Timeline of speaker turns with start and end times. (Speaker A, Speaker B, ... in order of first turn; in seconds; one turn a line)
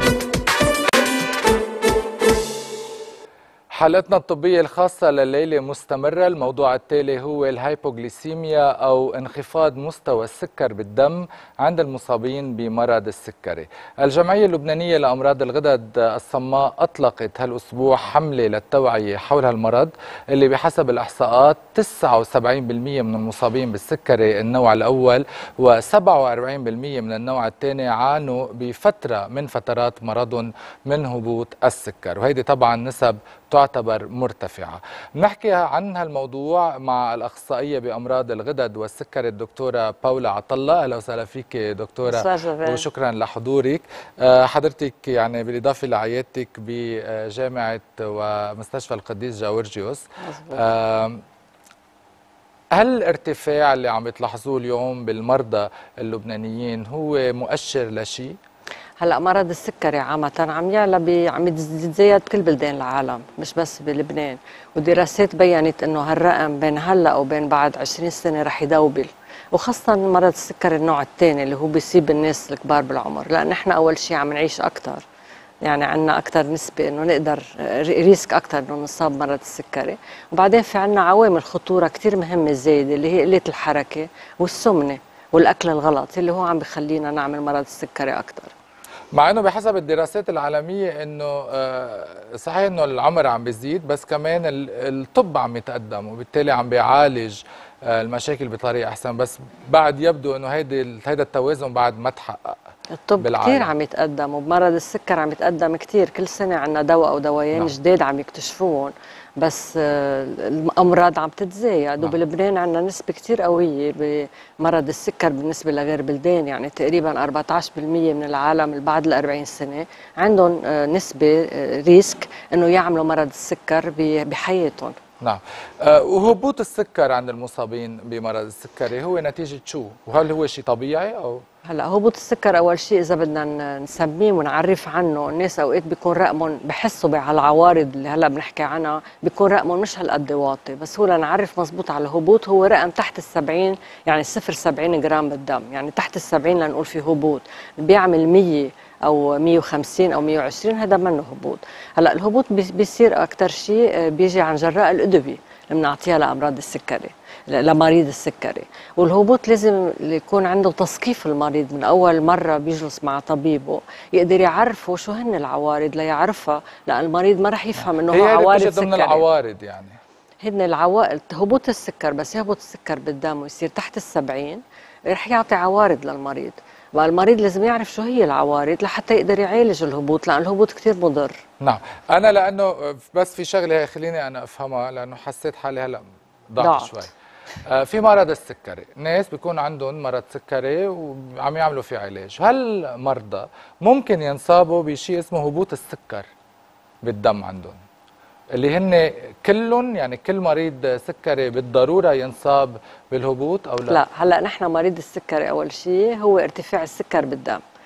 Speaker A: 3.7-50.0
Speaker B: 42.1-42.9
Speaker B: 50.2-50.6
Speaker A: 50.5-51.2
Speaker A: 52.7-58.3
Speaker B: 59.0-75.0
Speaker B: 75.6-88.5
Speaker A: 89.1-102.6
Speaker B: 103.0-124.9
Speaker A: 103.2-103.7
Speaker A: 125.2-131.4
Speaker B: 131.7-169.2
Speaker A: 167.8-170.0
Speaker B: 170.4-181.4
Speaker A: 181.6-187.1
Speaker B: 186.6-187.0
Speaker A: 187.7-196.3
Speaker A: 197.0-197.8
Speaker A: 198.5-204.0
Speaker B: 203.9-207.6